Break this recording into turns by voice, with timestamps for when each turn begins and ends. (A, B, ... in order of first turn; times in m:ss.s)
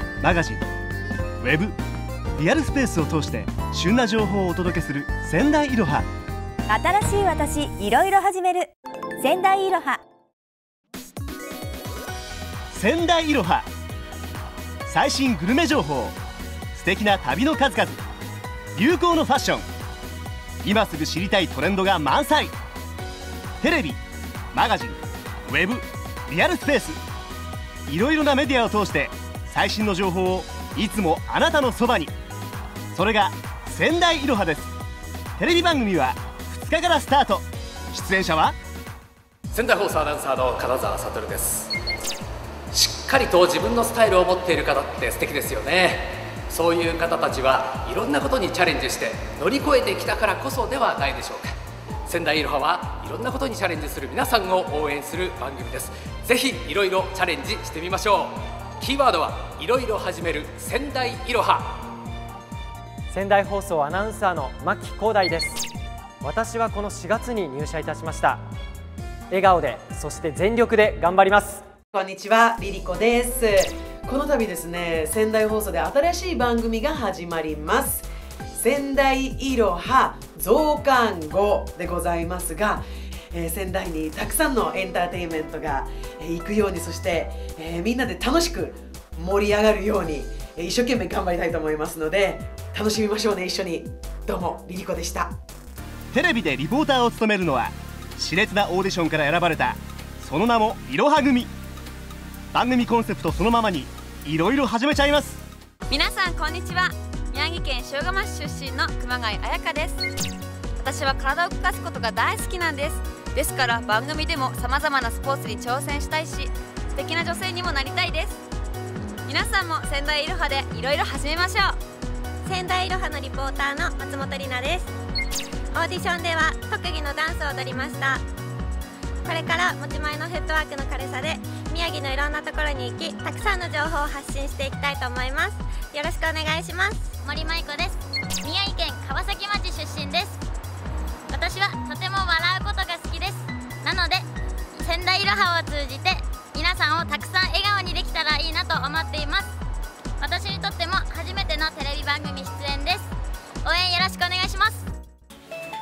0:00.2-0:00.6 A
0:01.4-0:01.8 A
0:02.4-0:06.1 A
0:06.7-0:10.0 B
0:12.7-0:13.7 A
0:14.9-0:16.2 A
0:16.7-0:18.0 A
0:18.8-0:19.6 A
0:20.6-0:22.5 A
0:23.6-0:24.0 A
0:24.5-0:27.0 A
0:27.9-0:32.1 A
0:32.9-0:34.7 A
0:35.4-0:38.6 A
0:39.5-0:41.7 C
0:42.7-0:51.6 C
0:52.1-1:01.9 C
1:03.1-1:05.6 D
1:06.2-1:08.4 D
1:09.3-1:11.6 D
1:11.9-1:35.4 E
1:36.1-1:41.5 A
1:42.5-1:45.4 A
1:45.9-1:50.0 F
1:50.8-1:58.4 F
1:59.3-2:01.8 F
2:02.4-2:04.9 G
2:05.7-2:08.2 G
2:09.2-2:17.1 G
2:17.2-2:20.4 H
2:21.3-2:24.3 H
2:24.8-2:29.5 H
2:30.2-2:33.1 H
2:33.6-2:34.8 H